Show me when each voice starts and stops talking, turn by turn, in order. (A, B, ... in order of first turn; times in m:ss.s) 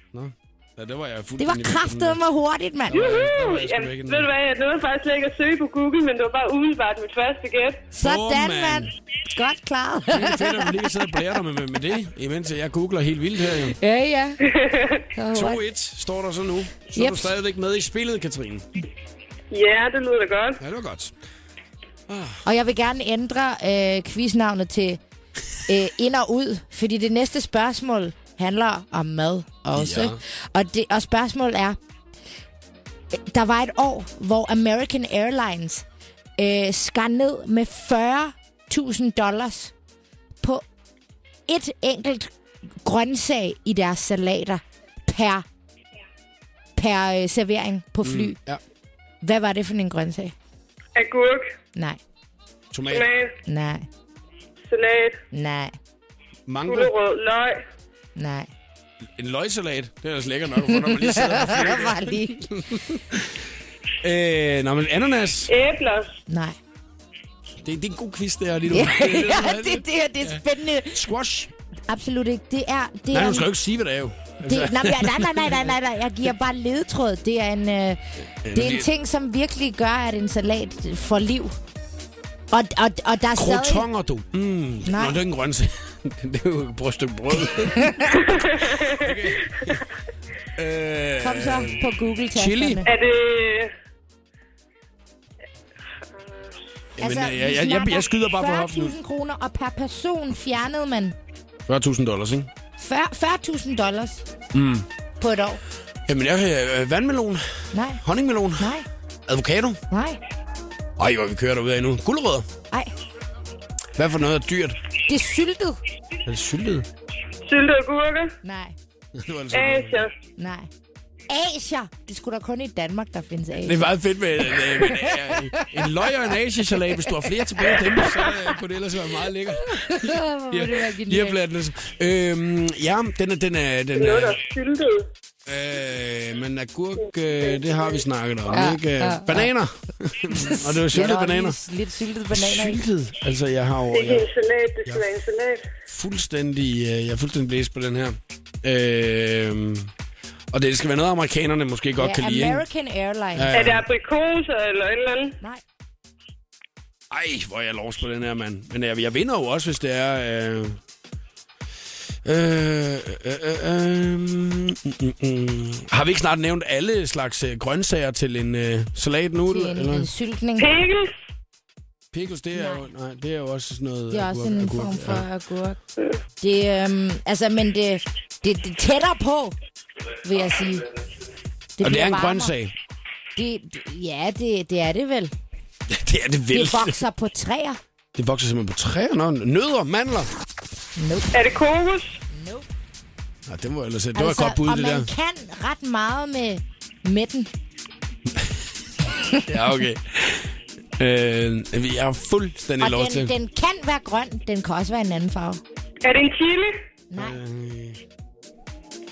0:00.1-0:02.2 A
0:01.4-0:03.1 B
0:02.9-0:04.3 A
0:02.9-0:07.9 C
0:07.9-0:10.9 B
0:08.0-0:08.9 A
0:10.1-0:13.8 A
0:13.7-0:14.4 B
0:14.5-0:15.0 C
0:15.1-0:15.6 B
0:15.3-0:18.7 A
0:17.0-0:17.3 B
0:19.5-0:20.6 C
0:20.6-0:21.1 A
0:22.1-0:22.4 A
0:22.4-0:25.0 B
0:25.7-0:31.8 B
0:29.7-0:30.2 A
0:33.1-0:35.8 B
0:36.4-0:39.7 B
0:41.5-0:45.4 B
0:46.8-0:48.4 B
0:48.0-0:48.6 A
0:49.2-0:50.4 B
0:51.0-0:51.5 C
0:51.8-0:52.0 B
0:52.7-0:53.1 A
0:52.9-0:53.3 C
0:53.4-0:53.9 B
0:54.6-0:55.2 C
0:55.3-0:55.8 B
0:56.5-0:56.9 A
0:56.7-0:57.6 C
0:58.2-0:58.5 B
0:59.2-1:03.4 A
1:00.7-1:02.5 B
1:04.0-1:05.5 A
1:05.5-1:06.2 C
1:06.3-1:06.6 B
1:07.6-1:11.5 A
1:08.7-1:11.0 B
1:11.9-1:13.5 B
1:13.1-1:15.7 A
1:14.4-1:18.0 B
1:18.4-1:18.9 A
1:18.5-1:21.6 B
1:22.5-1:23.9 B
1:23.4-1:29.8 A
1:24.8-1:25.2 B
1:27.8-1:28.2 B
1:28.2-1:29.1 C
1:30.6-1:32.9 A
1:31.2-1:32.9 B
1:32.8-1:33.7 C
1:36.0-1:36.6 C
1:37.0-1:39.0 A
1:37.0-1:41.2 B
1:41.7-1:42.5 A
1:42.8-1:44.3 B
1:44.5-1:44.9 A
1:45.2-1:45.6 B
1:46.1-1:49.8 A
1:47.7-1:48.0 B
1:48.6-1:48.9 B
1:49.9-1:50.2 B
1:51.0-1:52.5 A
1:54.0-1:54.8 A
1:55.1-1:55.8 B
1:56.3-1:56.9 A
1:57.5-1:58.4 C
1:58.4-1:58.8 B
1:59.2-2:00.0 A
1:59.5-2:00.1 C
2:00.4-2:00.7 B
2:01.3-2:03.9 B
2:03.6-2:14.4 A
2:04.6-2:06.0 B
2:06.7-2:07.7 B
2:09.5-2:11.4 B
2:14.0-2:15.1 C
2:15.5-2:21.6 A
2:18.5-2:19.5 B
2:20.3-2:22.8 B
2:22.3-2:24.3 A
2:23.9-2:25.7 C
2:25.9-2:29.9 A
2:30.5-2:32.6 A
2:32.0-2:33.5 B
2:33.4-2:33.9 A
2:33.5-2:35.4 C
2:37.1-2:40.8 A
2:42.2-2:50.1 A
2:49.5-2:50.8 B
2:50.6-2:51.1 C
2:52.1-2:55.3 A
2:52.5-2:52.9 B
2:54.1-2:55.8 B
2:56.4-2:59.6 B
3:00.2-3:00.9 B
3:01.8-3:02.5 B
3:01.8-3:02.7 A
3:03.4-3:05.3 B
3:05.9-3:07.0 A
3:06.5-3:07.8 B
3:08.2-3:10.3 A
3:11.0-3:11.3 B
3:11.3-3:12.2 C
3:12.3-3:12.7 B
3:13.5-3:15.1 A
3:14.2-3:17.5 B
3:19.2-3:19.5 B
3:19.5-3:23.3 A
3:22.8-3:25.6 B
3:26.0-3:26.8 C
3:27.1-3:27.4 B
3:27.2-3:28.0 A